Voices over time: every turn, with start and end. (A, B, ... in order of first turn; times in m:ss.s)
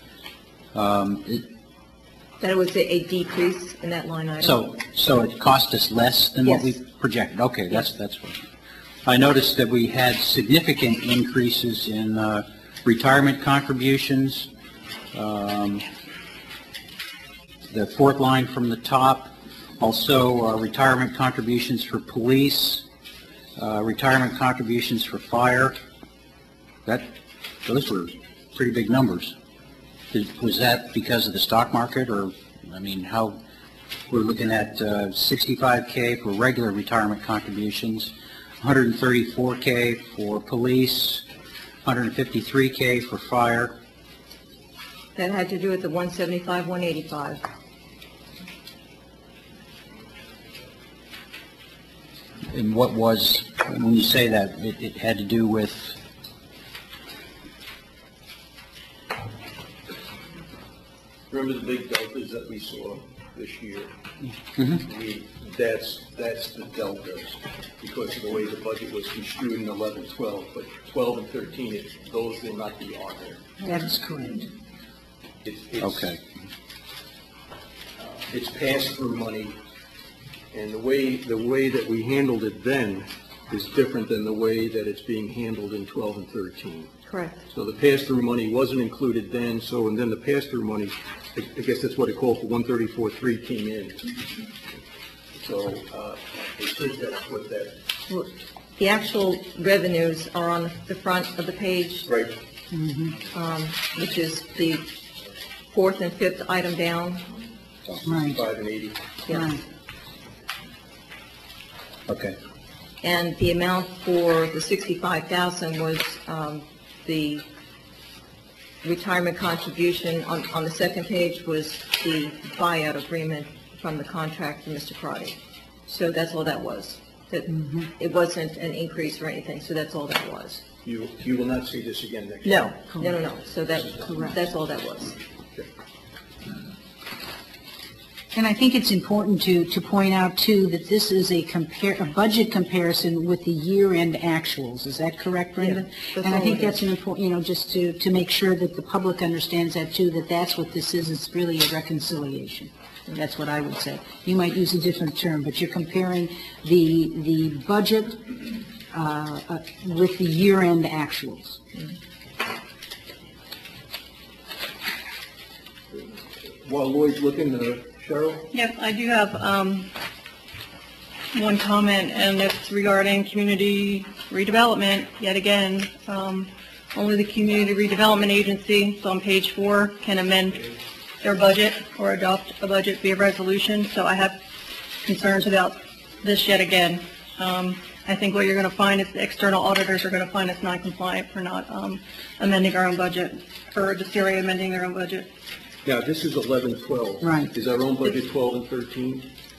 0:00.7-0:01.4 A
0:02.4-0:04.6 B
0:04.4-0:08.4 A
0:06.4-0:06.7 B
0:09.0-0:14.5 A
0:15.1-0:15.8 A
0:17.7-0:22.8 A
0:23.6-0:25.8 A
0:27.6-0:29.3 A
0:30.1-0:33.4 A
0:34.1-0:41.2 A
0:41.8-0:43.7 A
0:45.1-0:47.4 B
0:52.5-0:56.0 A
1:01.3-1:03.9 C
1:04.7-1:13.5 C
1:13.6-1:14.5 D
1:15.4-1:16.1 C
1:15.8-1:16.2 A
1:18.3-1:19.6 C
1:20.5-1:26.9 C
1:27.1-1:27.4 B
1:27.5-1:34.1 C
1:35.4-1:37.8 C
1:38.1-1:42.1 B
1:42.1-1:42.3 C
1:42.7-1:43.2 D
1:43.3-1:44.8 B
1:45.7-1:47.3 B
1:48.0-1:48.4 D
1:48.2-1:49.0 C
1:49.2-1:49.6 B
1:49.3-1:49.6 D
1:52.1-1:52.4 A
1:53.0-1:57.4 B
1:58.8-2:10.6 B
2:07.5-2:07.9 D
2:10.8-2:13.0 C
2:12.4-2:15.2 B
2:14.0-2:14.4 D
2:18.3-2:38.4 D
2:25.6-2:26.8 B
2:38.9-2:41.6 D
2:46.6-2:48.5 C
2:48.5-2:49.9 E
2:51.3-3:00.7 E
3:01.2-3:04.4 E
3:05.0-3:15.3 E
3:15.8-3:19.3 C
3:17.2-3:17.5 D